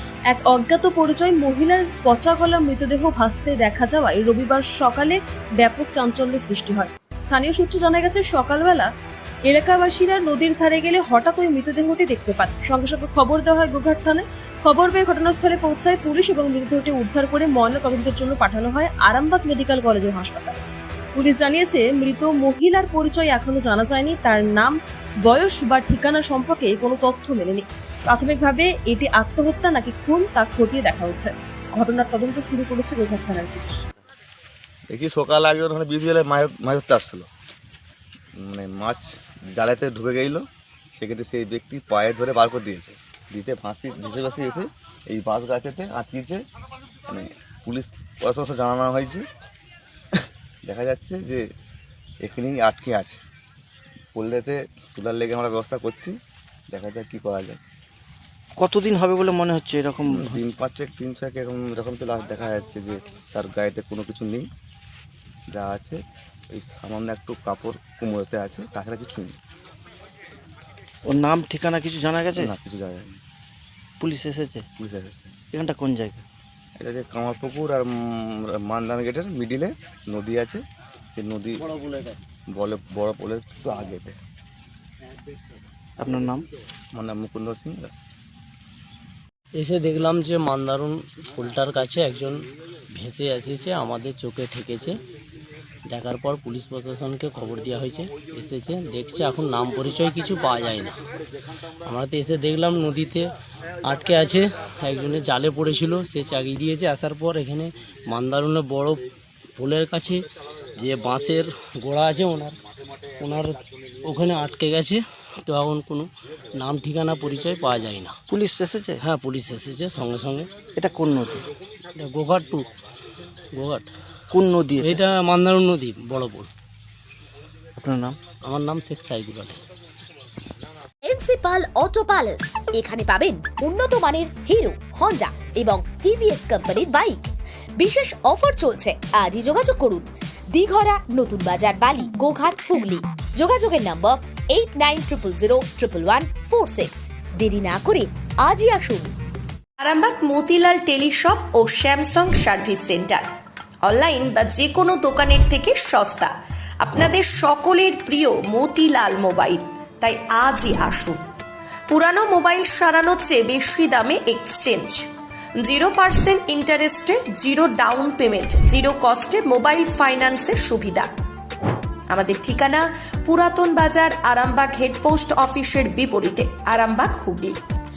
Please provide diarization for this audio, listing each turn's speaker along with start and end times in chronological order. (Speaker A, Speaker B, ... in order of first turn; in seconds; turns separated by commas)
Speaker A: 0.3-8.9, Speaker A: 9.5-33.8, Speaker B: 34.9-37.3, Speaker B: 38.4-40.4, Speaker B: 41.0-46.4, Speaker B: 47.1-49.2, Speaker B: 50.1-51.4, Speaker B: 52.2-53.2, Speaker B: 54.1-56.1, Speaker B: 56.7-57.6, Speaker C: 58.6-60.4, Speaker B: 60.1-64.5, Speaker B: 65.5-66.0, Speaker B: 66.5-69.4, Speaker C: 71.1-72.5, Speaker B: 72.4-73.2, Speaker C: 74.0-74.7, Speaker B: 74.8-75.4, Speaker C: 75.5-76.2, Speaker B: 76.8-80.6, Speaker B: 81.2-81.7, Speaker D: 81.6-82.2, Speaker B: 82.5-84.2, Speaker C: 86.0-86.5, Speaker B: 87.0-87.9, Speaker D: 89.6-92.4, Speaker D: 93.0-95.0, Speaker D: 95.9-101.0, Speaker D: 101.9-103.3, Speaker D: 103.8-109.0, Speaker D: 109.6-110.2, Speaker D: 110.8-112.6, Speaker D: 113.2-118.2, Speaker C: 118.3-119.0, Speaker D: 119.0-120.5, Speaker C: 120.8-121.5, Speaker D: 122.0-122.7, Speaker D: 123.5-123.9, Speaker C: 124.3-125.0, Speaker D: 124.8-126.5, Speaker C: 127.8-128.2, Speaker D: 128.5-129.6, Speaker E: 131.1-149.1, Speaker F: 149.8-153.2, Speaker F: 153.8-161.2, Speaker F: 161.9-165.1, Speaker F: 165.6-171.1, Speaker F: 172.1-177.6